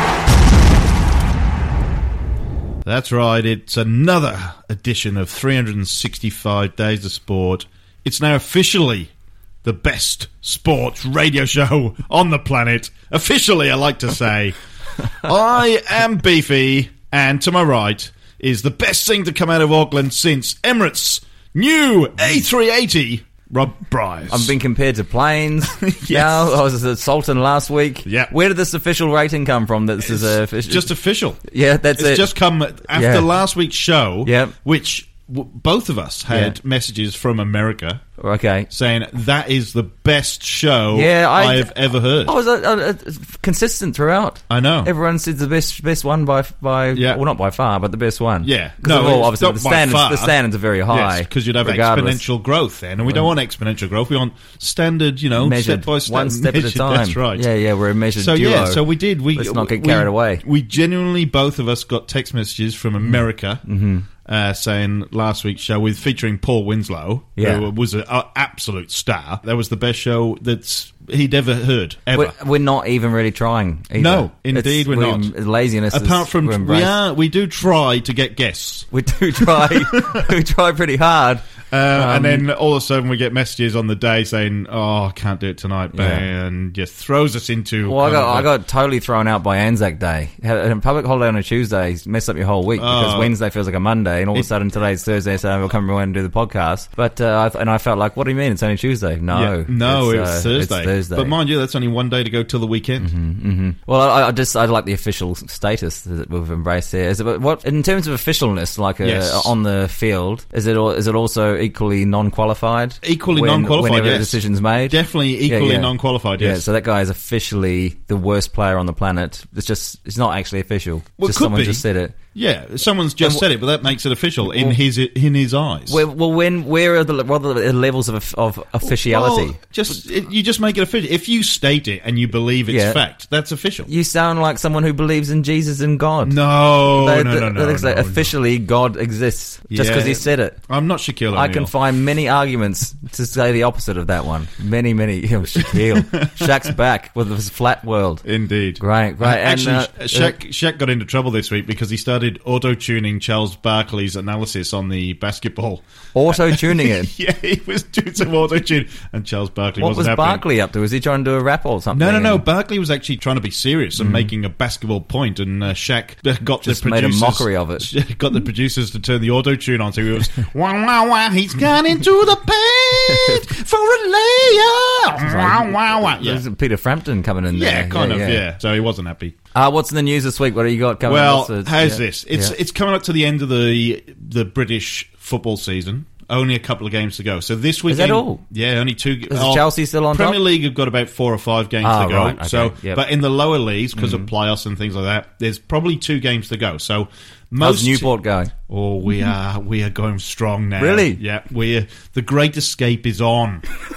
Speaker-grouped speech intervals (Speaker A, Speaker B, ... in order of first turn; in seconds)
Speaker A: 2.8-9.1, 9.6-14.6, 15.2-24.5, 25.7-26.6, 28.0-28.3, 30.0-31.4, 31.9-38.0, 38.7-42.3, 44.5-44.9, 46.9-47.2, 48.4-50.4, 50.9-57.5, 58.1-63.6, 64.2-72.3, 74.0-75.3, 75.9-80.3, 81.7-88.5, 92.8-93.3, 99.3-103.1, 109.0-109.5, 113.0-116.6, 121.2-126.0, 128.8-133.9, 136.2-138.3, 139.7-141.7, 145.6-146.5, 148.2-160.4, 161.9-176.4, 177.5-179.3, 181.0-198.1, 198.7-203.6
Speaker B: 24.3-30.9, 31.5-32.3, 32.9-33.3, 34.2-34.5, 36.3-36.6, 38.2-38.7, 40.9-52.2, 55.4-60.4, 63.0-64.0, 67.4-67.7, 72.1-77.0, 78.9-82.5, 85.9-86.2, 87.8-101.3, 103.0-122.2, 123.2-123.5, 124.5-124.8, 125.9-129.6, 132.7-133.0, 133.8-140.6, 141.3-148.2, 148.8-150.3, 156.1-157.1, 159.8-162.4, 164.0-164.3, 166.6-167.9, 173.1-173.4, 175.2-178.4, 179.5-182.5, 187.9-188.4, 189.3-190.4, 191.8-193.0, 193.9-194.3, 197.6-198.5, 200.8-201.2